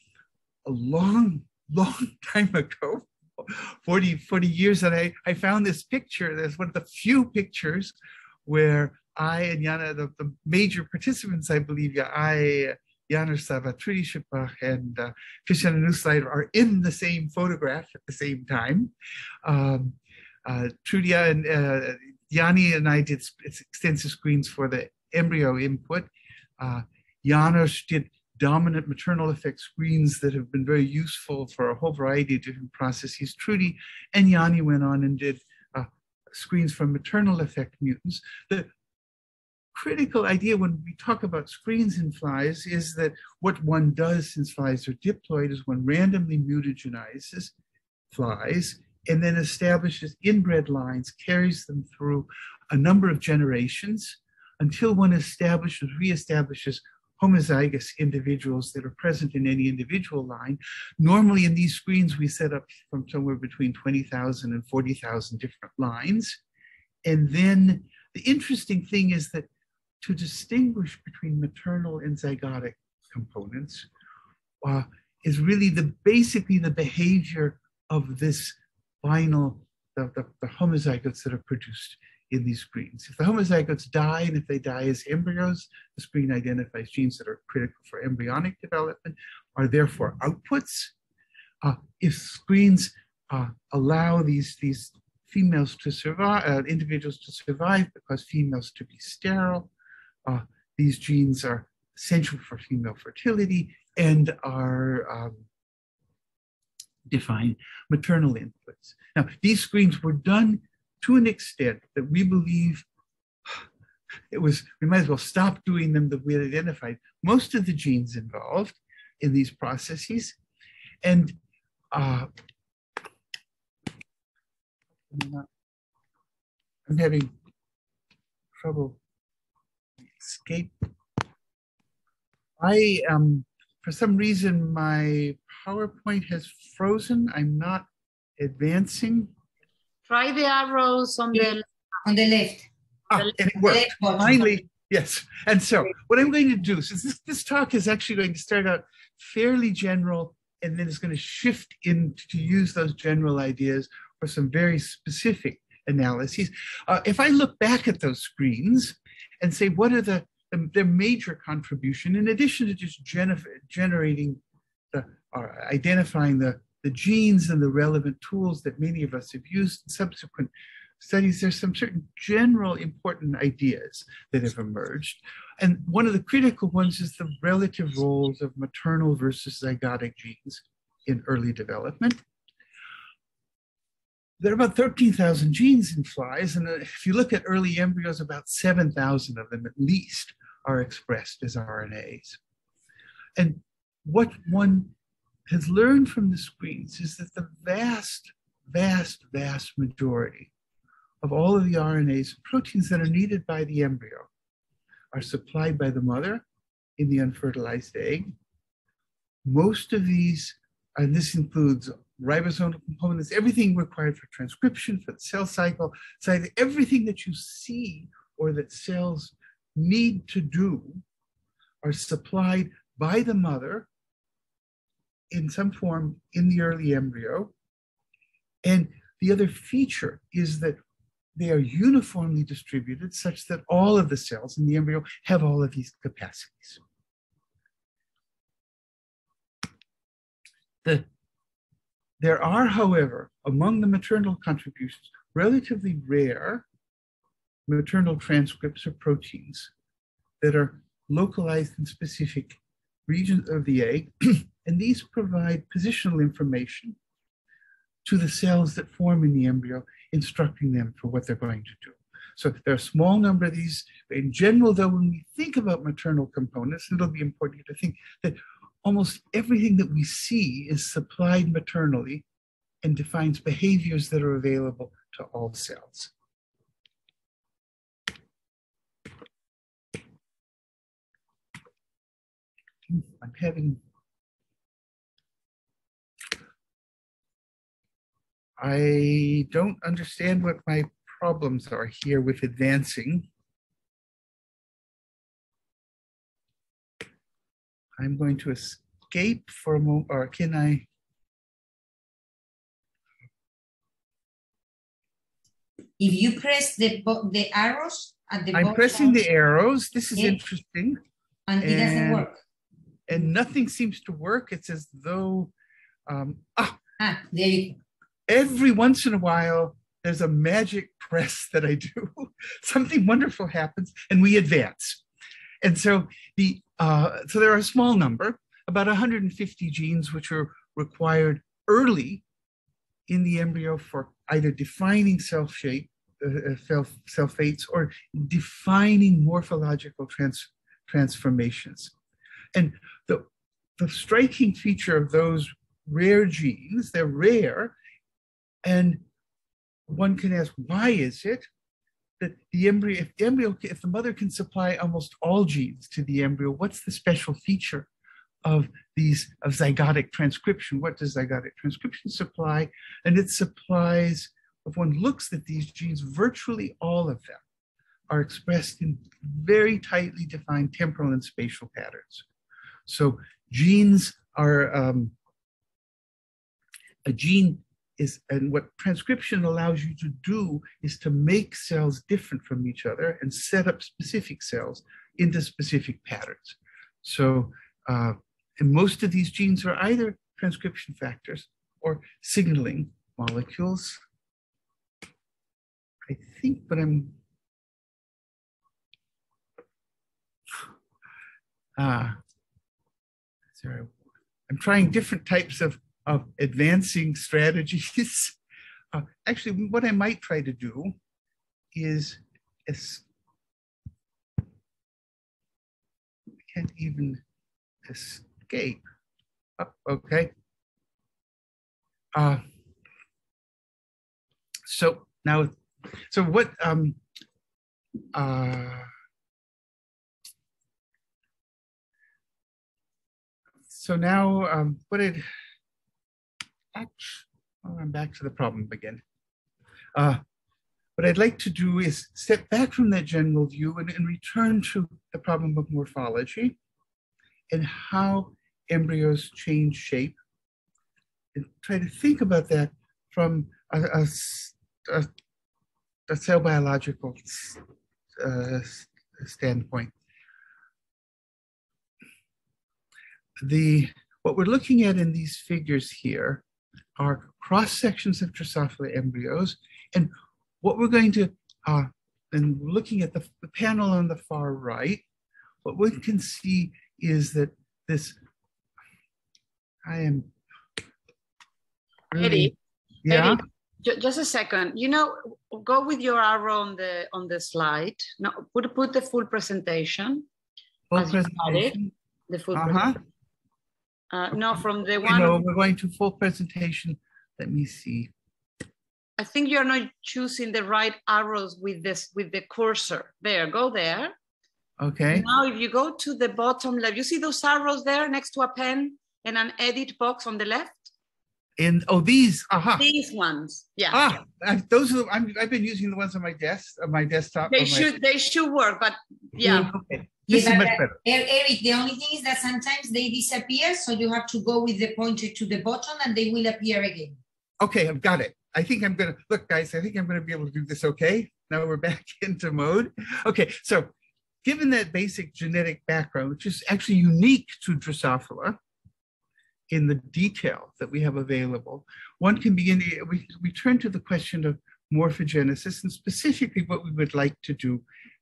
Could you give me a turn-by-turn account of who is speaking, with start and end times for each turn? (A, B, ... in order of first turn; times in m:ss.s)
0:00.6-0:18.9 A
0:19.4-0:38.7 A
0:39.7-0:47.5 A
0:48.1-1:06.4 A
1:07.0-1:09.5 A
1:10.0-1:13.9 A
1:14.6-1:30.9 A
1:31.6-1:39.7 A
1:40.3-1:45.4 A
1:47.1-1:52.9 A
1:54.3-2:00.4 A
2:01.0-2:01.4 A
2:01.9-2:02.3 A
2:05.1-2:05.5 A
2:06.9-2:07.3 A
2:08.6-2:09.0 A
2:10.2-2:10.9 A
2:12.6-2:19.3 A
2:20.1-2:21.6 B
2:22.0-2:22.7 C
2:23.1-2:44.4 A
2:23.5-2:24.5 C
2:44.9-3:02.2 A
3:04.4-3:12.4 A
3:13.4-3:14.9 A
3:15.5-3:20.5 A
3:21.2-3:24.3 A
3:25.1-3:26.4 A
3:27.0-3:28.3 A
3:29.4-3:41.0 A
3:41.8-3:43.9 A
3:45.3-3:47.5 A
3:48.6-3:50.8 A
3:51.4-3:56.8 A
4:02.2-4:06.7 A
4:07.7-4:09.7 A
4:10.4-4:17.0 A
4:18.0-4:32.2 A
4:32.8-4:36.1 A
4:42.9-4:43.8 A
4:48.6-4:53.3 A
4:58.0-5:00.9 A
5:06.0-5:09.2 C
5:08.5-5:11.0 A
5:11.5-5:12.4 C
5:11.6-5:12.3 A
5:13.1-5:15.5 A
5:16.1-5:16.8 A
5:17.0-5:17.8 C
5:18.3-5:25.0 A
5:25.6-5:32.2 A
5:33.1-5:41.9 A
5:42.5-5:47.8 A
5:48.6-5:49.0 A
5:49.9-5:51.5 A
5:52.2-5:57.9 A
5:58.4-6:07.4 A
6:08.1-6:12.3 A
6:12.9-6:15.1 A
6:17.0-6:34.0 A
6:36.1-6:37.2 A
6:41.8-6:42.2 A
6:43.5-6:43.9 A
6:44.5-6:48.4 A
6:48.9-6:51.0 A
6:51.7-6:53.0 A
6:56.5-6:57.2 A
6:57.8-6:58.8 A
6:59.6-7:00.3 A
7:02.2-7:02.4 A
7:04.7-7:07.0 A
7:08.1-7:08.9 A
7:13.7-7:15.3 A
7:16.7-7:19.0 A
7:19.9-7:20.2 A
7:21.0-7:26.6 A
7:27.5-7:30.2 A
7:31.4-7:35.1 A
7:36.1-7:37.6 A
7:38.2-7:39.9 A
7:43.4-7:46.4 A
7:47.0-7:55.0 A
7:55.6-7:58.2 A
7:59.8-8:00.3 A
8:02.1-8:03.4 A
8:02.2-8:02.5 B
8:03.1-8:10.3 B
8:10.9-8:11.9 A
8:11.0-8:11.8 B
8:12.3-8:13.0 B
8:12.5-8:13.0 A
8:14.1-8:15.4 B
8:14.3-8:18.1 A
8:19.2-8:24.1 B
8:24.8-8:25.3 A
8:25.1-8:30.9 B
8:31.6-8:32.9 A
8:32.8-8:34.0 B
8:33.9-8:37.9 A
8:37.5-8:39.7 B
8:39.4-8:41.0 A
8:40.3-8:47.2 C
8:47.6-8:53.9 A
8:54.4-8:58.6 A
8:59.7-9:07.8 A